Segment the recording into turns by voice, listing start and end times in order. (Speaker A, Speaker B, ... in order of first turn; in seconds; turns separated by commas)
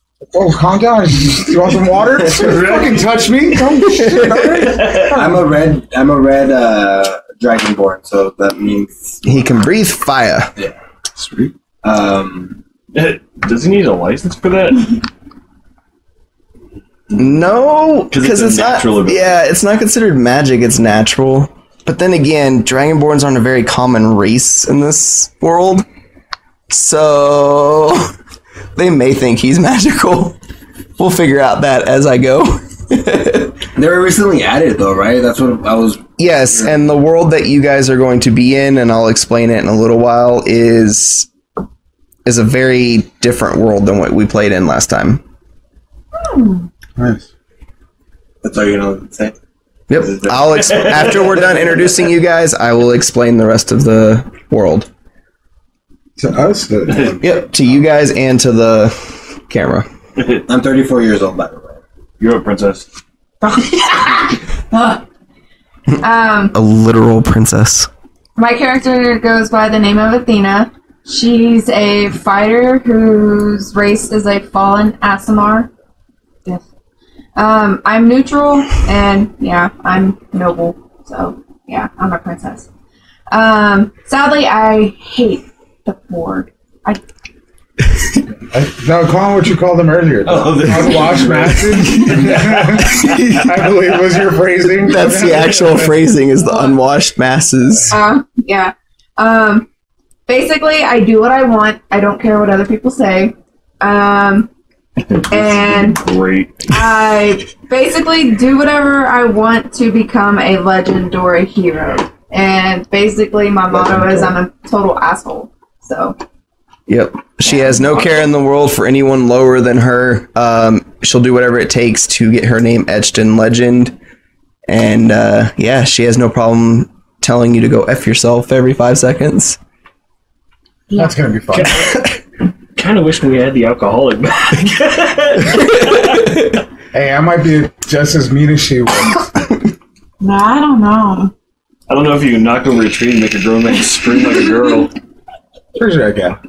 Speaker A: 0.3-5.3, Speaker B: 2.3-3.1, Speaker C: 4.0-4.4, Speaker B: 4.6-5.2, Speaker D: 5.1-9.2, Speaker C: 9.2-10.5, Speaker A: 11.2-11.5, Speaker D: 11.8-12.6, Speaker B: 12.9-15.0, Speaker C: 17.2-25.9, Speaker B: 18.1-19.4, Speaker C: 26.7-28.1, Speaker C: 28.7-30.4, Speaker C: 31.0-33.6, Speaker D: 33.7-36.8, Speaker C: 36.2-41.3, Speaker C: 42.2-45.2, Speaker E: 46.2-46.7, Speaker A: 47.0-47.3, Speaker D: 48.4-49.3, Speaker C: 49.9-54.9, Speaker D: 49.9-50.7, Speaker B: 50.6-51.3, Speaker A: 56.2-57.2, Speaker B: 56.9-57.2, Speaker C: 57.2-59.9, Speaker D: 60.5-61.8, Speaker B: 62.2-62.9, Speaker E: 63.4-65.0, Speaker E: 66.0-66.5, Speaker C: 66.5-67.9, Speaker E: 68.4-75.7, Speaker E: 77.3-82.7, Speaker E: 83.3-87.0, Speaker A: 88.5-96.0, Speaker B: 90.2-93.4, Speaker C: 94.8-98.0, Speaker E: 96.4-96.8, Speaker E: 97.9-99.7, Speaker E: 100.3-104.5, Speaker B: 105.0-106.8, Speaker E: 105.3-106.0, Speaker E: 106.7-116.1, Speaker C: 113.7-114.3, Speaker C: 116.9-124.0, Speaker E: 117.4-118.1, Speaker C: 124.7-129.6, Speaker E: 130.9-131.2, Speaker A: 131.0-131.9, Speaker B: 131.5-132.2, Speaker B: 132.7-136.5, Speaker A: 136.9-139.3, Speaker E: 140.2-141.3, Speaker B: 141.9-144.9, Speaker A: 145.7-146.4